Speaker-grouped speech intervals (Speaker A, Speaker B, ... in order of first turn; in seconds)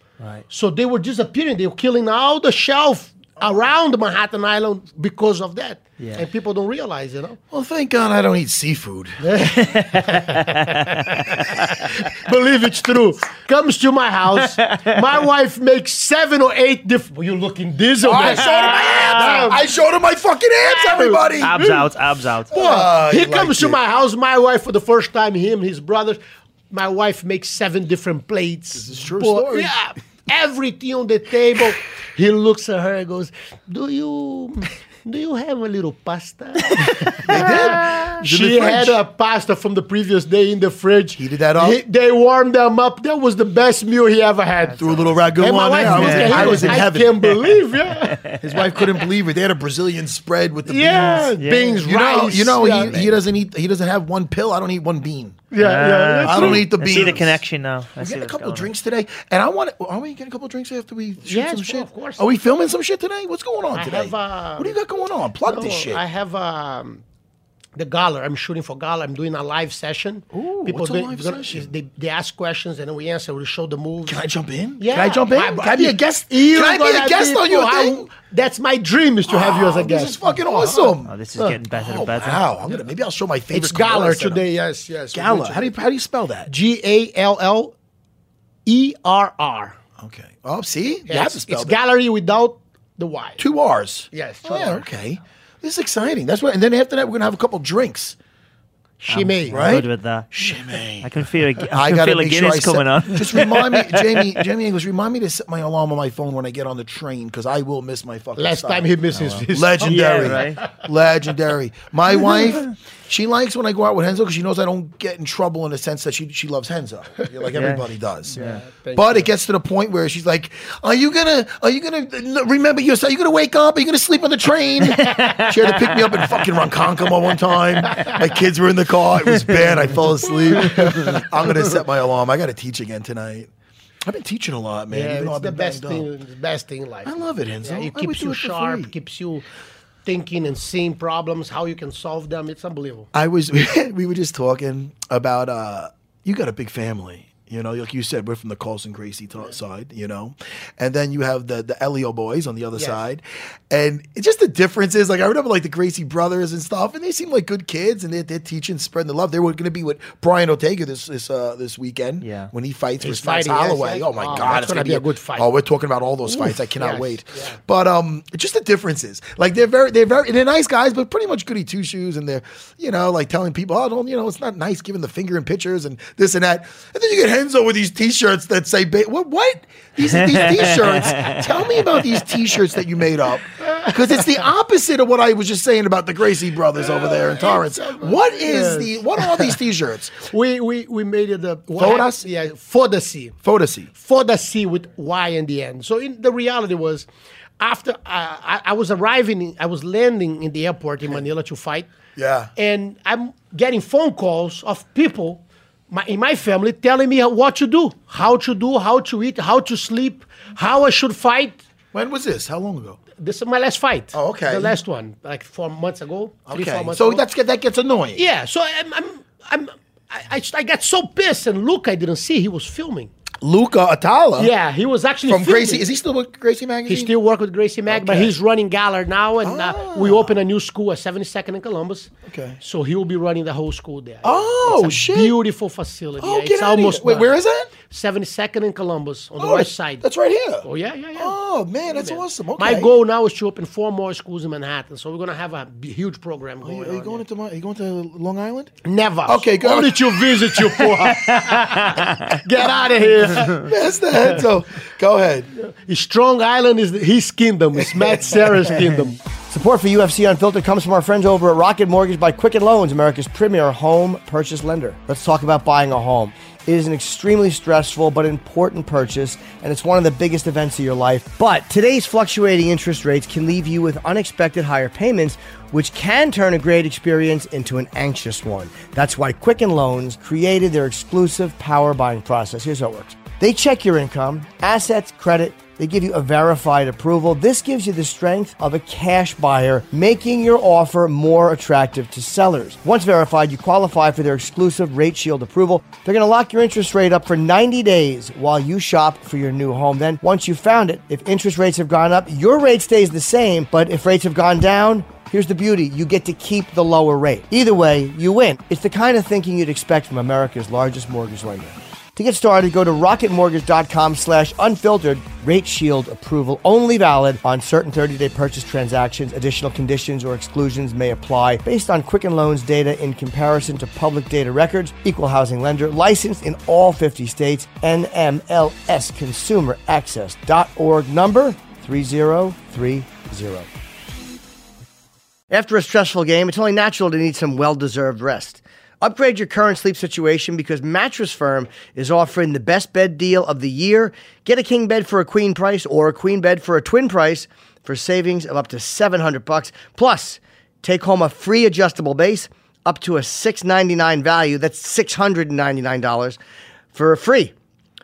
Speaker A: 0.2-0.5, 6.0-6.2, 9.6-11.8, 14.4-15.0, 18.2-19.5, 21.4-22.5, 36.8-38.1, 44.6-46.9, 48.0-48.4, 51.0-51.9, 55.6-58.7, 81.0-82.6, 99.1-104.2, 109.1-110.7, 112.2-112.7, 117.5-118.6, 124.8-126.5, 127.8-128.1, 129.4-129.9, 130.6-131.2, 162.2-162.5, 180.1-181.4
Speaker B: 0.5-7.4, 9.2-11.0, 12.1-19.6, 20.6-21.9, 22.5-26.2, 26.7-48.4, 50.7-53.2, 55.5-57.2, 61.2-62.2, 63.7-64.8, 65.5-67.0, 67.8-74.2, 74.8-81.6, 83.5-85.8, 86.5-87.7, 88.7-89.8, 91.1-93.4, 94.1-94.9, 99.0-99.8, 108.4-110.8, 118.3-119.3, 127.9-128.2, 130.5-131.2, 134.9-139.5, 140.1-143.1, 163.0-165.5, 166.3-167.6, 183.6-183.9, 186.8-189.6, 190.2-193.4, 193.9-197.1, 197.6-201.9, 202.6-211.6, 213.2-217.3, 218.2-223.1, 224.4-225.9, 226.9-240.1, 240.6-241.3, 241.9-247.2, 248.8-253.7, 255.6-259.2
Speaker C: 7.5-9.2, 18.0-21.6, 22.5-23.8, 28.7-29.8, 37.2-39.0, 41.1-41.8, 44.8-47.4, 48.4-51.3, 51.8-55.5, 56.2-57.4, 58.0-66.0, 70.3-71.7, 74.1-78.1, 79.3-81.1, 81.7-84.4, 85.1-86.5, 90.0-91.8, 93.4-98.2, 99.5-109.0, 109.5-118.4, 118.9-133.5, 134.1-136.1, 137.0-138.9, 143.1-190.3, 191.8-192.3, 193.4-193.9, 202.2-202.5, 211.9-213.0, 214.1-214.8, 216.5-218.2, 223.4-224.5, 225.3-227.1, 227.9-228.3, 229.4-230.3, 232.2-232.6, 234.2-235.4, 236.2-237.7, 239.4-243.0, 246.6-250.8, 253.4-255.5, 257.8-258.6
Speaker D: 259.5-333.7, 335.5-356.4, 356.9-357.5